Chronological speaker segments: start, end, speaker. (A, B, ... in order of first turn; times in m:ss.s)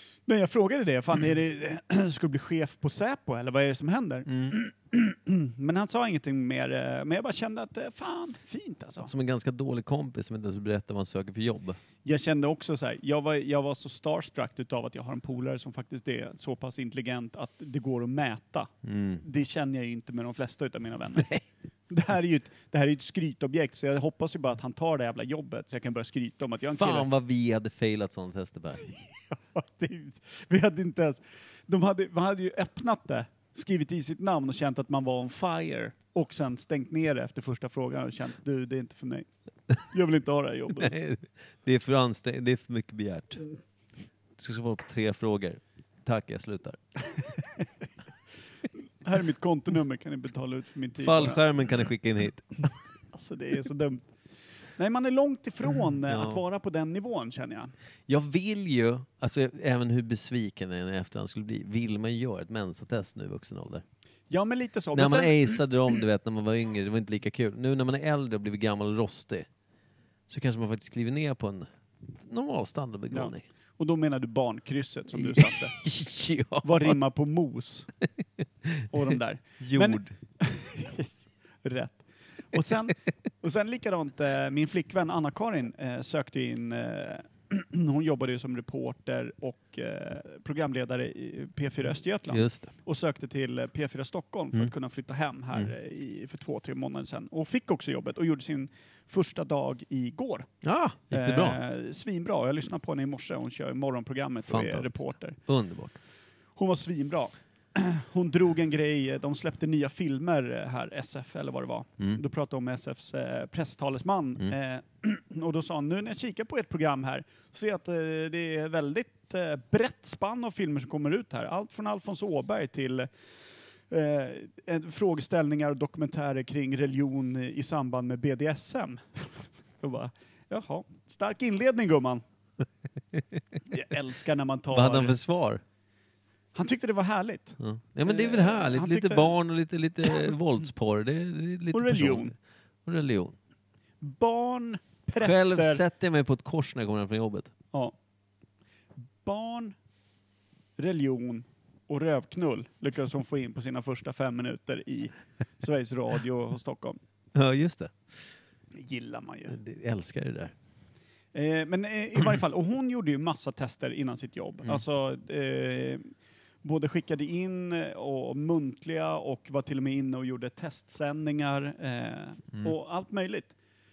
0:00.3-0:09.1 A
0:04.3-0:04.6 B
0:09.0-0:11.8 B
0:12.0-0:21.3 A
0:18.8-0:19.2 B
0:21.2-0:21.4 B
0:21.9-0:27.1 A
0:26.7-0:28.8 B
0:28.8-0:39.3 A
0:39.8-0:40.9 A
0:40.8-0:43.4 B
0:44.4-0:46.8 B
0:49.0-0:51.4 A
0:51.0-0:52.7 B
0:53.1-0:54.0 A
0:54.8-0:57.7 A
0:56.1-0:56.4 B
0:58.1-1:03.8 B
1:04.3-1:05.5 A
1:04.9-1:09.5 B
1:10.3-1:13.4 B
1:13.1-1:15.8 A
1:15.1-1:17.0 B
1:16.6-1:17.9 A
1:18.9-1:40.5 A
1:19.6-1:20.1 B
1:32.3-1:32.7 B
1:40.6-1:41.6 B
1:41.1-1:45.4 A
1:44.5-1:46.0 B
1:46.6-2:03.1 A
2:03.9-2:12.2 A
2:13.1-2:13.4 B
2:13.7-2:15.2 A
2:14.7-2:15.6 B
2:16.6-2:19.4 A
2:17.6-2:23.4 B
2:20.1-2:20.3 A
2:21.7-2:22.3 A
2:24.0-2:25.8 A
2:25.2-2:27.5 B
2:29.2-2:29.8 A
2:30.8-2:37.0 A
2:37.3-2:38.0 B
2:38.8-2:39.6 A
2:39.5-2:40.5 B
2:41.3-2:46.1 A
2:46.6-2:53.6 A